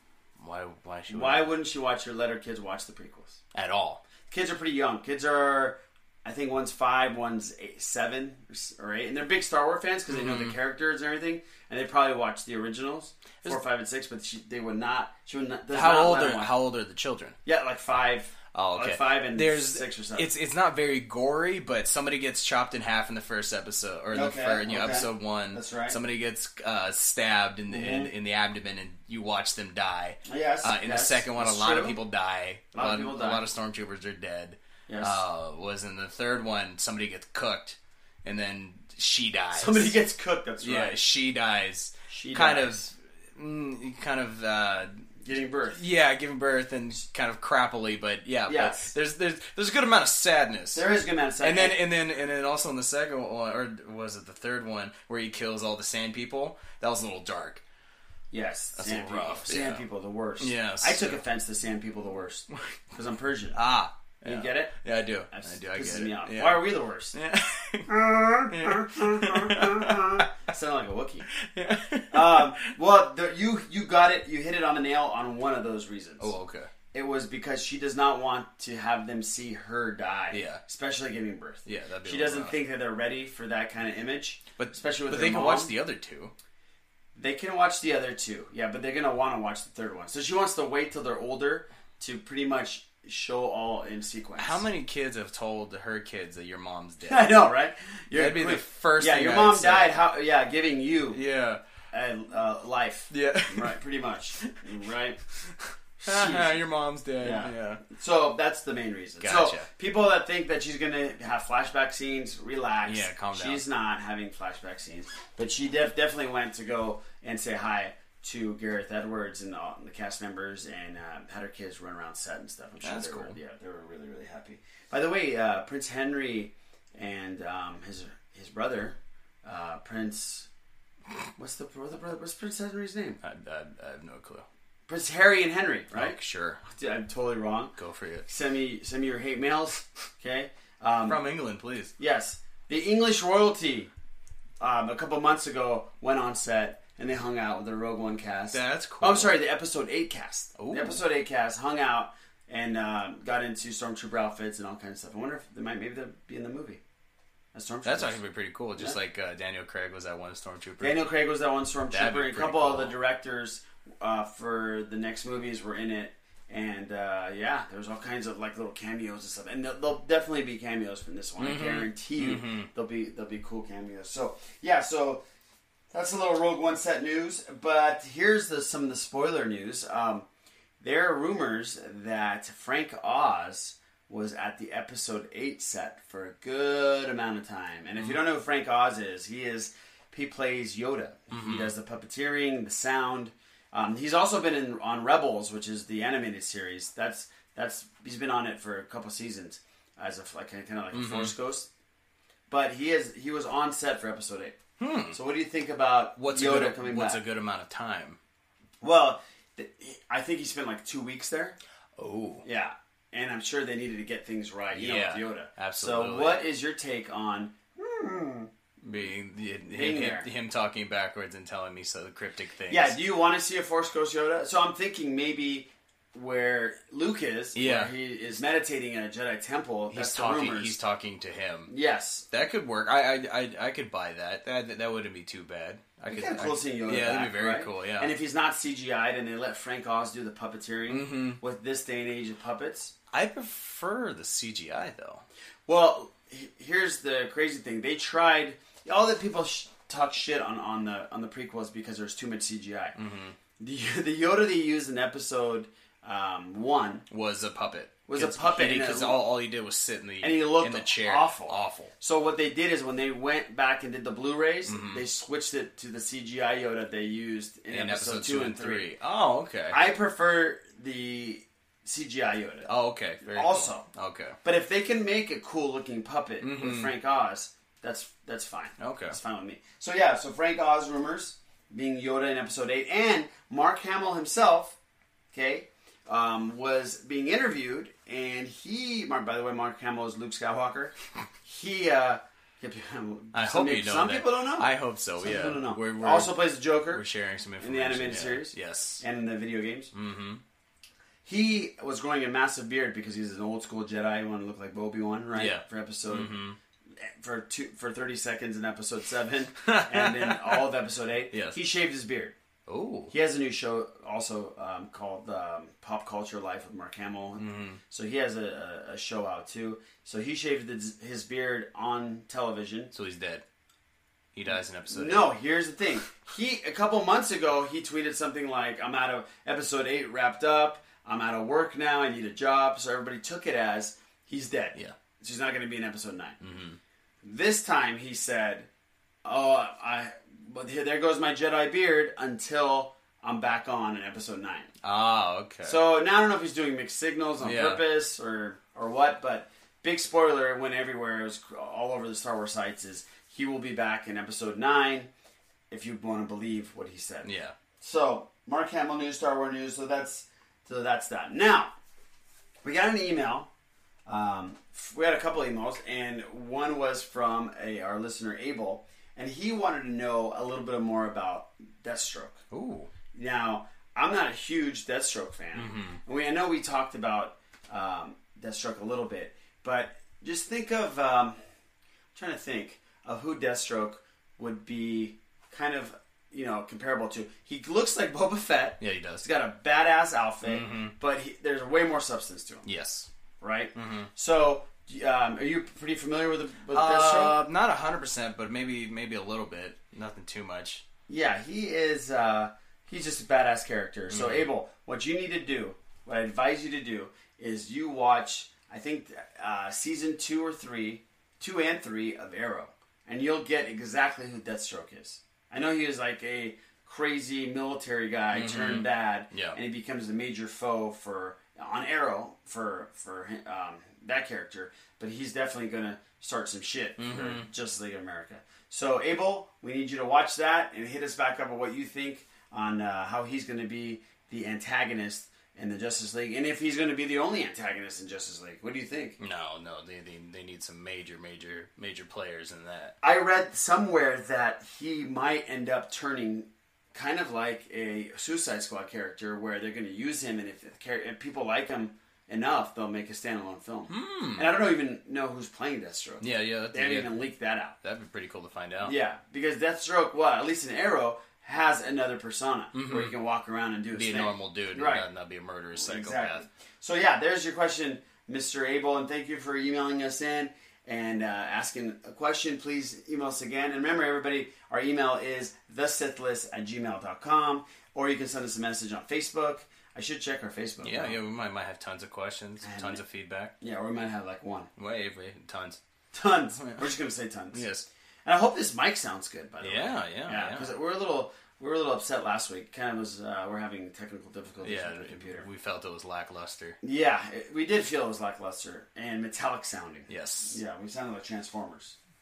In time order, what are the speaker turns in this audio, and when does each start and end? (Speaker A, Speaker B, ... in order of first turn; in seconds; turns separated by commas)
Speaker A: 0.4-1.5, Speaker B: 1.1-3.4, Speaker A: 3.5-4.0, Speaker B: 4.3-16.6, Speaker A: 10.1-10.6, Speaker A: 15.7-17.4, Speaker B: 17.4-20.3, Speaker A: 18.5-40.0, Speaker B: 24.1-26.0, Speaker B: 27.7-28.1, Speaker B: 30.2-32.0, Speaker B: 32.7-33.5, Speaker B: 34.9-35.2, Speaker B: 39.5-41.0, Speaker A: 40.6-45.0, Speaker B: 42.1-42.9, Speaker B: 45.2-45.8, Speaker A: 45.7-50.9, Speaker B: 48.5-48.9, Speaker B: 50.7-51.8, Speaker A: 51.4-57.6, Speaker B: 58.3-63.6, Speaker A: 58.8-59.8, Speaker A: 60.4-61.2, Speaker A: 63.5-70.2, Speaker B: 64.2-64.7, Speaker B: 65.3-67.1, Speaker B: 67.9-71.3, Speaker A: 71.4-72.7, Speaker B: 72.1-76.3, Speaker A: 76.2-76.7, Speaker B: 76.9-85.7, Speaker A: 80.3-80.6, Speaker A: 81.6-82.6, Speaker A: 84.6-86.3, Speaker B: 87.2-94.7, Speaker A: 94.4-97.3, Speaker B: 97.0-101.2, Speaker A: 98.1-100.0, Speaker A: 101.1-101.6, Speaker B: 101.9-105.2, Speaker A: 103.1-103.8, Speaker A: 105.4-107.8, Speaker B: 106.0-106.6, Speaker B: 107.2-130.5, Speaker A: 109.2-109.7, Speaker A: 112.8-113.6, Speaker A: 122.8-123.4, Speaker B: 131.4-133.2, Speaker A: 133.2-134.4, Speaker B: 134.9-137.7, Speaker A: 135.9-136.6, Speaker A: 137.8-138.2, Speaker B: 138.2-141.2, Speaker A: 141.1-141.9, Speaker B: 142.0-143.9, Speaker B: 144.6-156.8, Speaker A: 148.5-149.4, Speaker A: 150.6-151.0, Speaker B: 157.5-158.2, Speaker A: 157.8-161.1, Speaker B: 160.8-175.2, Speaker A: 161.9-163.0, Speaker A: 171.4-172.7, Speaker B: 175.9-180.2, Speaker B: 180.8-201.7, Speaker A: 191.3-191.7, Speaker A: 200.9-201.3, Speaker B: 202.5-204.6, Speaker A: 204.8-205.2, Speaker B: 205.1-207.2, Speaker A: 206.2-208.2, Speaker B: 208.8-211.6, Speaker A: 212.0-212.4, Speaker B: 212.4-218.5, Speaker A: 214.7-216.4, Speaker A: 218.8-222.9, Speaker B: 219.7-220.3, Speaker B: 222.7-230.8, Speaker A: 227.6-227.9, Speaker A: 229.9-231.7, Speaker B: 231.7-232.2, Speaker A: 232.3-238.1, Speaker B: 236.1-242.9, Speaker A: 240.9-241.4, Speaker A: 243.1-245.2, Speaker B: 245.7-252.9, Speaker A: 252.9-253.4, Speaker B: 253.6-257.1, Speaker A: 257.1-261.9, Speaker B: 258.1-259.2, Speaker B: 260.2-268.9, Speaker A: 264.7-265.0, Speaker A: 267.7-269.8, Speaker B: 269.7-272.7, Speaker A: 272.6-274.4, Speaker B: 273.2-273.9, Speaker B: 274.4-284.8, Speaker A: 276.4-276.9, Speaker A: 278.8-279.2, Speaker B: 285.3-297.0, Speaker A: 293.3-299.0, Speaker B: 297.6-299.9, Speaker A: 299.9-300.4, Speaker B: 301.2-306.4, Speaker A: 305.4-306.6, Speaker B: 307.0-312.4, Speaker A: 309.6-310.6, Speaker A: 311.3-311.6, Speaker A: 312.7-313.1, Speaker B: 313.1-322.9, Speaker A: 317.4-317.8, Speaker A: 322.9-323.4, Speaker A: 324.3-325.3, Speaker B: 324.9-336.4, Speaker A: 336.4-336.8, Speaker B: 337.2-338.7, Speaker B: 339.2-344.7, Speaker A: 344.8-345.8, Speaker B: 345.6-355.1, Speaker A: 347.4-347.8, Speaker B: 355.7-357.3, Speaker A: 357.2-357.6, Speaker B: 357.8-361.7, Speaker B: 362.6-363.5, Speaker B: 364.1-372.4, Speaker A: 372.5-372.9, Speaker B: 373.1-381.4, Speaker A: 375.6-376.0, Speaker B: 382.1-392.6, Speaker A: 388.8-389.2, Speaker A: 390.4-390.9, Speaker A: 392.6-393.1, Speaker B: 393.4-397.4, Speaker A: 393.7-394.1, Speaker A: 396.7-400.8, Speaker B: 401.1-439.2, Speaker A: 404.1-404.5, Speaker A: 418.3-419.6, Speaker A: 427.0-427.5, Speaker A: 439.2-442.9, Speaker B: 443.0-457.8, Speaker A: 453.9-454.5, Speaker A: 456.2-457.2, Speaker A: 457.8-458.9, Speaker B: 458.8-465.1, Speaker A: 462.7-463.1, Speaker A: 463.9-466.4, Speaker B: 465.7-481.2, Speaker A: 480.8-483.5, Speaker B: 482.6-483.0, Speaker B: 483.6-484.7, Speaker A: 484.8-485.8, Speaker B: 486.1-487.7, Speaker A: 486.6-486.9, Speaker A: 487.5-487.9, Speaker B: 488.2-495.5, Speaker A: 489.6-490.7, Speaker A: 494.6-496.8, Speaker B: 496.8-502.0, Speaker A: 500.1-500.6